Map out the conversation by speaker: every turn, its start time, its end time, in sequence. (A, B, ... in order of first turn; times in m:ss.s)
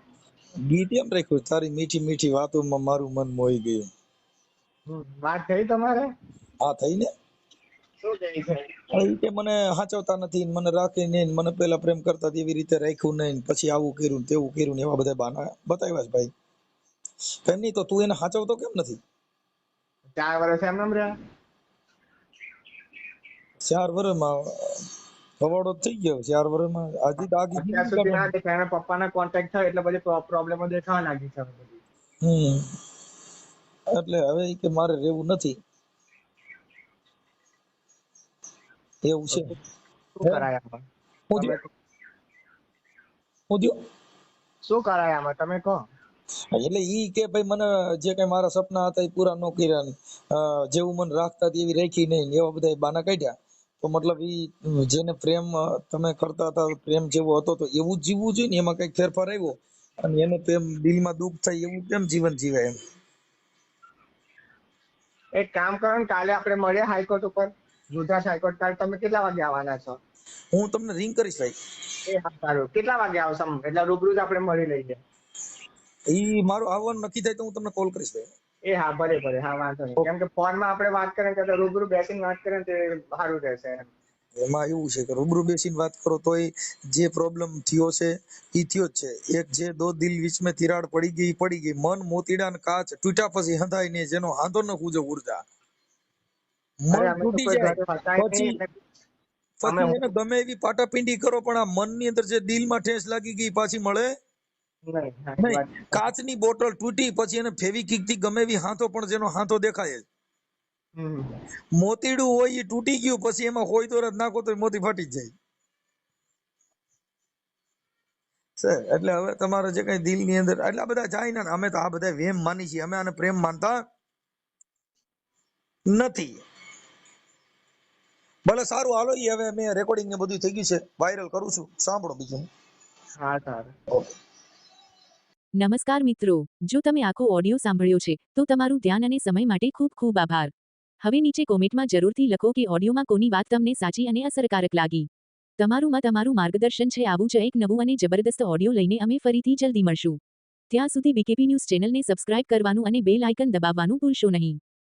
0:00.6-0:03.9 A
0:04.9-0:06.1 B
0:06.6-0:07.1 A
0:08.0-0:09.0 B
0:08.9-0:16.3 A
0:17.4-0:19.0 A
0:20.1-0:21.1 B
0:23.6-0:24.8 A
0:25.4-0:28.3 A
0:27.5-0:31.8 B
0:32.2-0:32.6 A
0:33.9-0:35.6 A
0:39.0-0:39.5 A
0:39.3-0:39.6 B
0:40.2-0:40.8 B
0:41.3-0:41.6 A
0:41.4-0:41.7 B
0:43.5-0:43.8 A
0:44.6-0:45.8 B
0:46.5-1:02.8 A
1:05.3-1:10.0 B
1:10.5-1:11.6 A
1:12.1-1:15.0 B
1:16.1-1:18.3 A
1:18.6-1:23.9 B
1:24.4-1:35.4 A
1:36.8-1:38.6 A
1:36.9-1:38.7 B
1:39.6-1:44.1 A
1:39.6-1:40.0 B
1:44.8-1:46.0 B
1:45.4-1:50.0 A
1:51.0-1:51.3 B
1:51.8-1:55.3 A
1:58.6-2:03.8 A
2:05.9-2:06.4 A
2:08.4-2:12.5 A
2:13.2-2:13.7 B
2:15.6-2:20.5 C
2:21.0-2:25.1 C
2:25.6-2:30.2 C
2:30.7-2:34.6 C